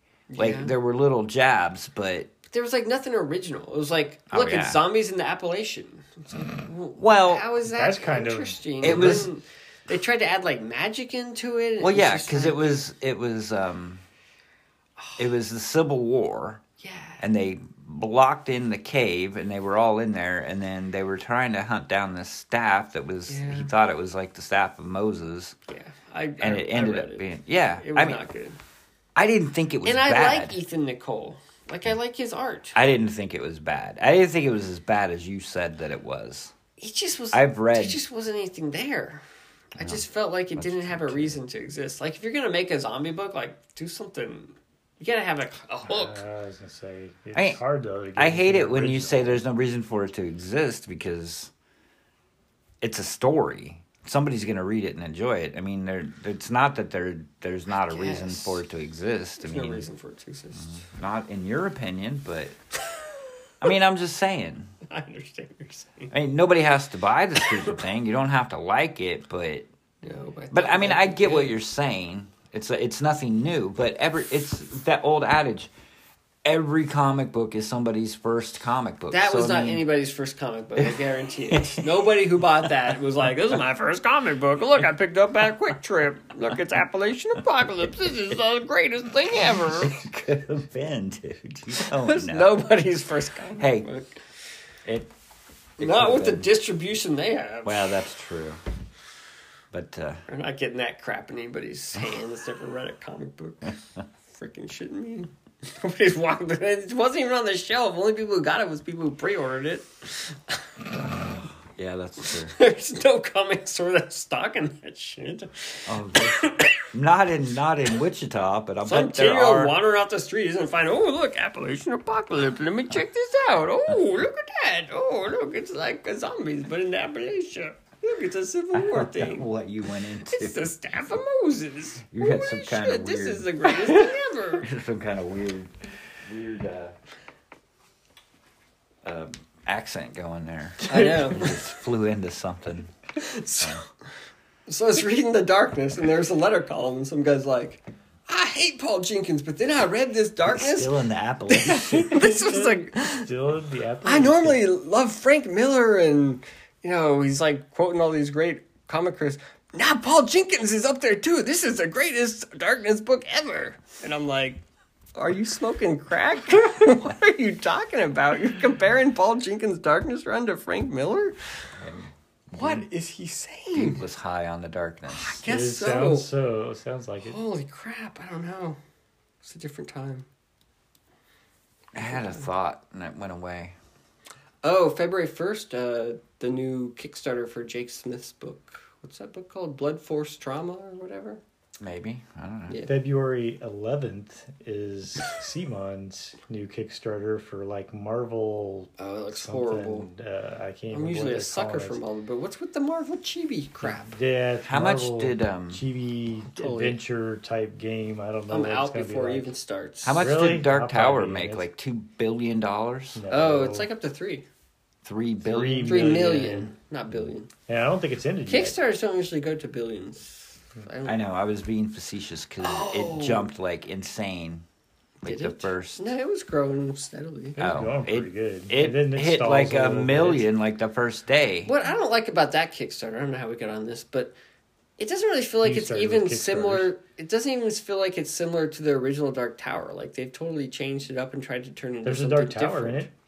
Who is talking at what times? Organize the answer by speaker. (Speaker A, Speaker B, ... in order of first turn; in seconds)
Speaker A: 0.3-0.7, 2.5-12.7, 15.0-15.3, 16.8-17.2, 23.3-23.7, 25.7-27.3, 27.8-28.6, 29.8-32.8, 36.8-39.2, 39.7-46.2, 57.8-58.6, 59.4-60.8, 64.8-66.1, 70.0-71.5, 79.1-90.0, 91.8-94.2, 95.8-98.0, 100.3-103.7, 104.3-110.6, 112.2-116.7, 118.8-129.4, 130.2-134.7, 140.8-141.6, 143.2-143.8, 144.7-151.0, 151.5-153.3, 154.0-164.6, 165.1-171.3, 172.5-174.0, 175.1-176.3, 177.2-178.8, 179.4-180.3, 182.0-182.4, 184.6-191.4, 192.7-192.9, 199.0-200.1, 200.9-204.2, 206.6-207.0, 208.5-210.3, 213.3-214.4, 215.8-217.5, 218.4-221.2, 222.6-223.5, 225.2-227.6, 231.6-234.3, 235.0-243.1
Speaker B: 0.4-2.3, 4.3-4.8, 7.0-7.5, 8.8-9.3, 11.8-14.0, 15.2-16.6, 17.2-25.6, 26.4-28.2, 29.1-30.6, 32.7-36.5, 37.3-38.0, 39.8-40.0, 40.5-41.4, 47.3-47.6, 48.1-51.5, 52.8-59.9, 60.5-62.5, 63.6-64.7, 66.1-69.7, 70.5-75.7, 76.4-79.8, 80.8-82.7, 89.6-92.7, 93.6-93.9, 95.8-96.5, 97.6-98.6, 99.7-100.2, 111.1-112.6, 115.9-119.8, 128.7-130.7, 132.1-134.1, 134.6-136.9, 139.0-142.9, 150.5-152.2, 171.8-172.8, 173.7-175.4, 181.9-183.7, 191.8-192.8, 204.6-205.8, 210.0-213.2, 215.0-216.0, 221.0-224.6, 225.2-226.1, 227.6-231.7
Speaker C: 7.7-9.2, 45.9-49.4, 152.1-154.6, 175.4-177.3, 192.8-202.0, 203.8-209.5, 210.1-211.7, 213.1-213.9, 215.4-216.7, 217.7-218.7, 227.6-230.4, 235.6-236.9, 242.0-243.1